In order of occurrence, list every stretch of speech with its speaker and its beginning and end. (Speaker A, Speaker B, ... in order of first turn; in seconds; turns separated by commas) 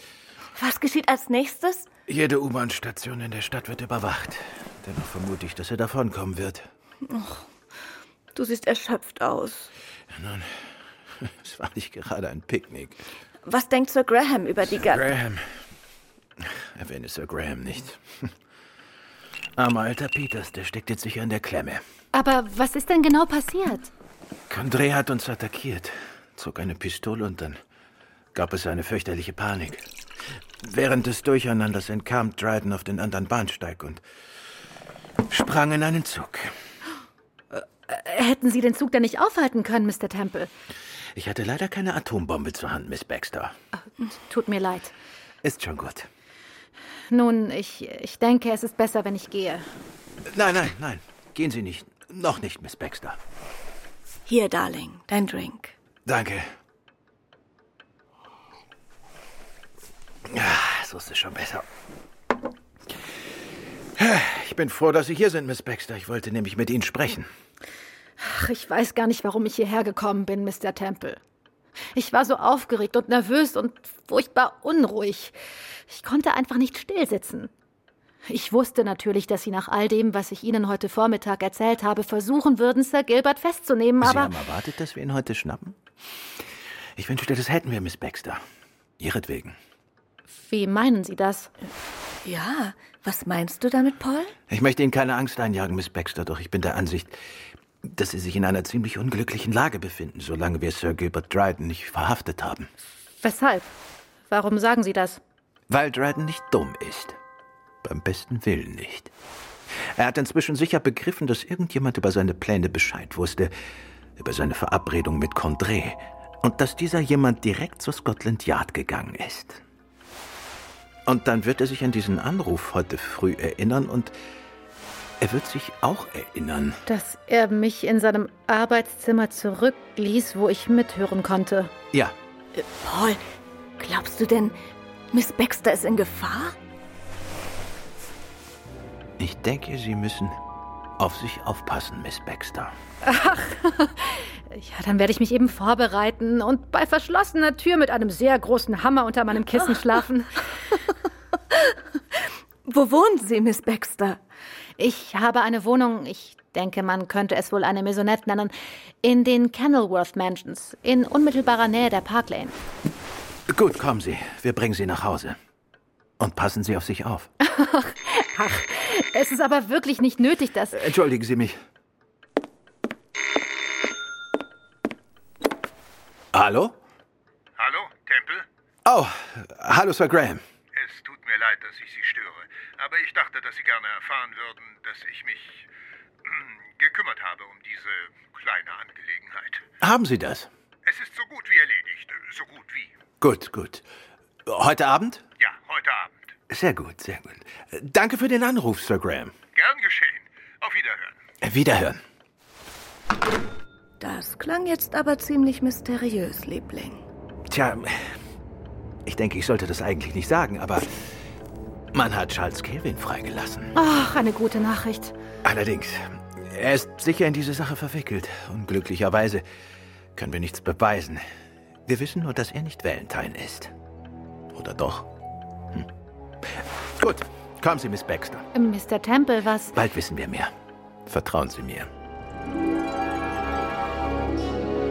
Speaker A: 0.6-1.9, Speaker B: 2.1-6.7, Speaker A: 7.1-7.5, Speaker A: 8.3-9.7, Speaker B: 10.1-10.7, Speaker B: 11.2-13.0, Speaker A: 13.4-15.1, Speaker B: 14.7-15.5, Speaker B: 16.4-18.3, Speaker B: 19.6-21.8, Speaker C: 22.1-23.9, Speaker B: 24.5-27.6, Speaker B: 28.3-29.8, Speaker B: 30.6-34.0, Speaker B: 35.3-36.5, Speaker C: 37.5-40.5, Speaker B: 41.1-43.6, Speaker C: 44.1-44.9, Speaker B: 45.4-46.1, Speaker C: 47.1-49.7, Speaker B: 50.3-53.2, Speaker A: 54.3-55.8, Speaker B: 56.1-56.5, Speaker B: 60.3-61.7, Speaker B: 64.0-67.3, Speaker C: 68.2-71.2, Speaker C: 72.0-75.3, Speaker C: 75.9-77.5, Speaker C: 78.3-84.3, Speaker B: 84.0-85.8, Speaker B: 87.0-88.4, Speaker B: 89.0-89.6, Speaker C: 90.4-91.5, Speaker A: 92.2-94.3, Speaker B: 94.5-97.2, Speaker B: 97.8-102.7, Speaker C: 103.2-103.7, Speaker C: 104.3-105.2, Speaker B: 105.7-107.2, Speaker B: 107.8-109.1, Speaker B: 110.0-113.5, Speaker B: 114.2-119.6, Speaker B: 121.1-124.1, Speaker B: 125.2-126.8, Speaker C: 126.9-131.7, Speaker A: 132.6-133.2, Speaker A: 133.8-134.6, Speaker A: 135.1-136.6, Speaker B: 139.2-140.4, Speaker B: 141.0-142.7, Speaker C: 143.0-150.3, Speaker A: 152.7-154.2, Speaker C: 154.8-162.6, Speaker B: 163.5-165.4, Speaker B: 166.2-167.3, Speaker C: 167.4-170.8, Speaker B: 170.7-171.6, Speaker B: 176.3-176.8, Speaker D: 177.6-178.5, Speaker B: 178.8-180.4, Speaker D: 180.8-185.7, Speaker D: 186.2-189.6, Speaker B: 189.8-190.5, Speaker D: 190.9-192.9, Speaker B: 193.2-193.8, Speaker B: 194.5-195.2, Speaker D: 195.4-196.2, Speaker B: 196.5-199.3, Speaker D: 199.6-201.2, Speaker B: 201.4-202.0, Speaker A: 204.0-207.0, Speaker B: 207.5-208.0, Speaker B: 209.1-210.9, Speaker B: 211.9-213.7, Speaker C: 213.8-215.1, Speaker B: 215.4-219.4, Speaker B: 220.2-221.2, Speaker B: 221.9-223.7, Speaker B: 224.6-225.1, Speaker B: 226.4-228.5, Speaker C: 228.5-229.8, Speaker B: 229.8-230.5, Speaker B: 231.1-231.9